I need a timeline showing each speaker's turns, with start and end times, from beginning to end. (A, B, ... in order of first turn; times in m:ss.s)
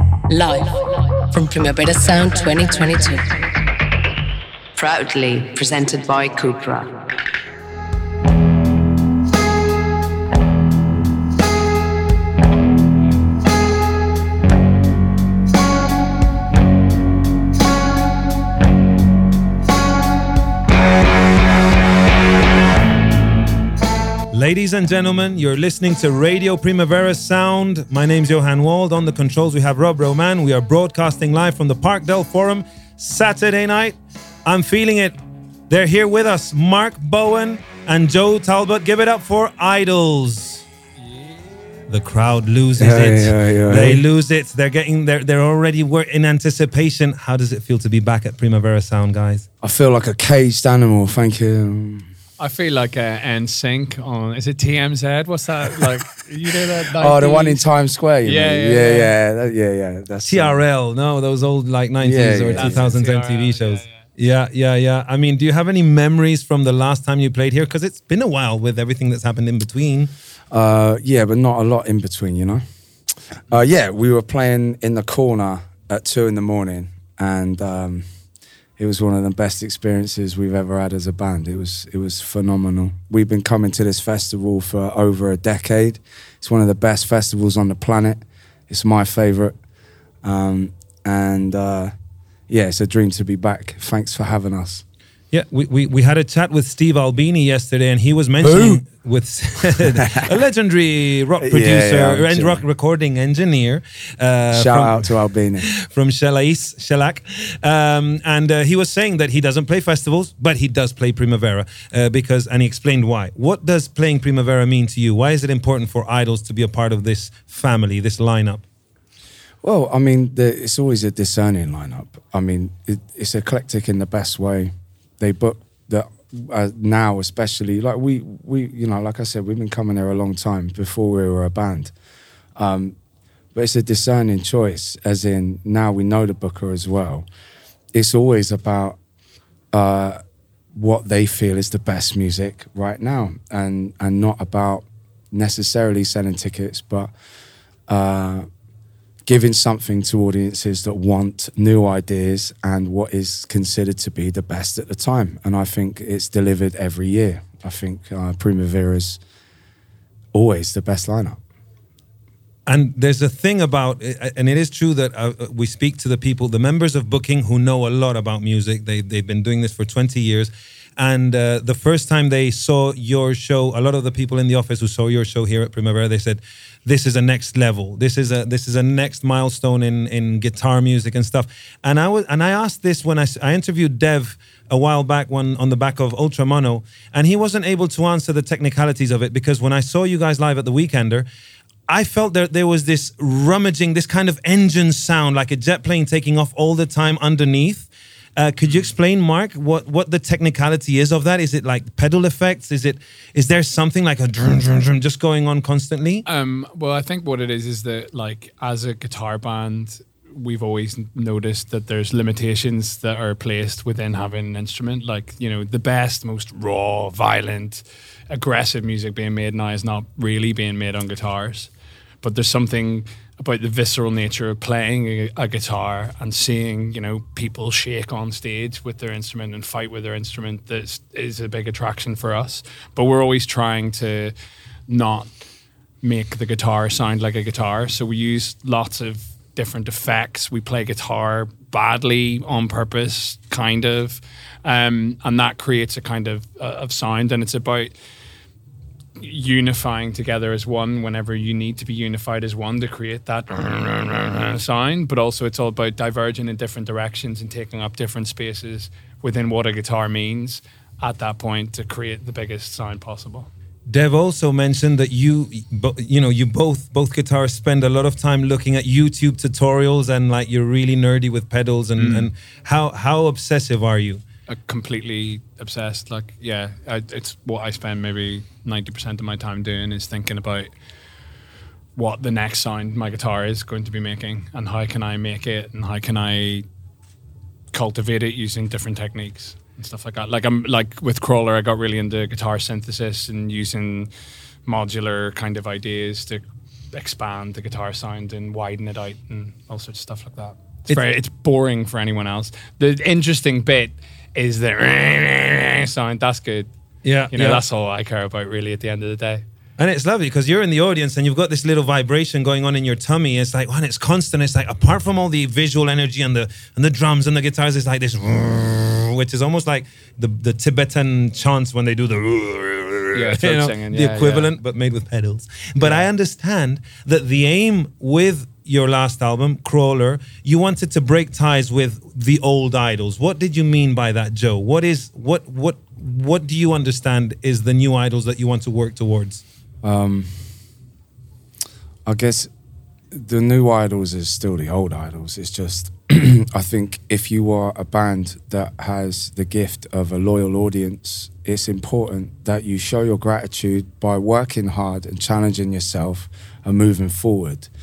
0:00.3-0:03.5 A
0:04.8-0:07.0 A
0:24.3-0:35.2 B
0:35.7-0:40.6 B
0:41.9-0:49.4 B
0:42.8-0:44.0 C
0:49.6-0:52.1 C
0:52.4-0:57.6 D
0:57.0-1:00.6 C
0:58.2-0:59.1 D
1:00.2-1:10.1 B
1:02.0-1:02.8 C
1:02.5-1:04.0 D
1:10.5-1:12.6 C
1:13.5-1:18.0 C
1:18.8-1:29.5 C
1:30.2-1:31.9 C
1:32.5-1:34.8 C
1:35.3-1:58.6 B
1:38.4-1:38.8 C
1:39.6-1:40.3 C
1:41.4-1:42.6 C
1:44.5-1:45.7 C
1:59.6-2:11.9 C
2:12.6-2:13.0 C
2:13.5-2:17.2 C
2:17.9-2:19.0 C
2:19.7-2:20.2 C
2:20.7-2:27.1 C
2:27.9-2:28.4 C
2:29.2-2:39.2 C
2:40.3-2:41.4 C
2:42.7-3:11.2 B
3:11.9-3:26.2 B
3:26.2-3:41.7 D
3:42.2-3:54.3 D
3:54.9-3:55.4 D
3:56.0-4:07.9 D
4:09.2-4:23.5 D
4:23.9-4:34.2 B
4:32.0-4:32.3 D
4:34.5-4:40.7 D
4:42.0-4:46.6 D
4:47.7-4:54.1 D
4:54.6-5:06.7 D
5:07.0-5:07.6 B
5:07.3-5:09.4 D
5:09.8-5:39.4 B
5:23.1-5:24.5 D
5:25.8-5:26.0 D
5:39.8-5:40.5 C
5:42.0-5:42.5 C
5:43.1-5:57.7 C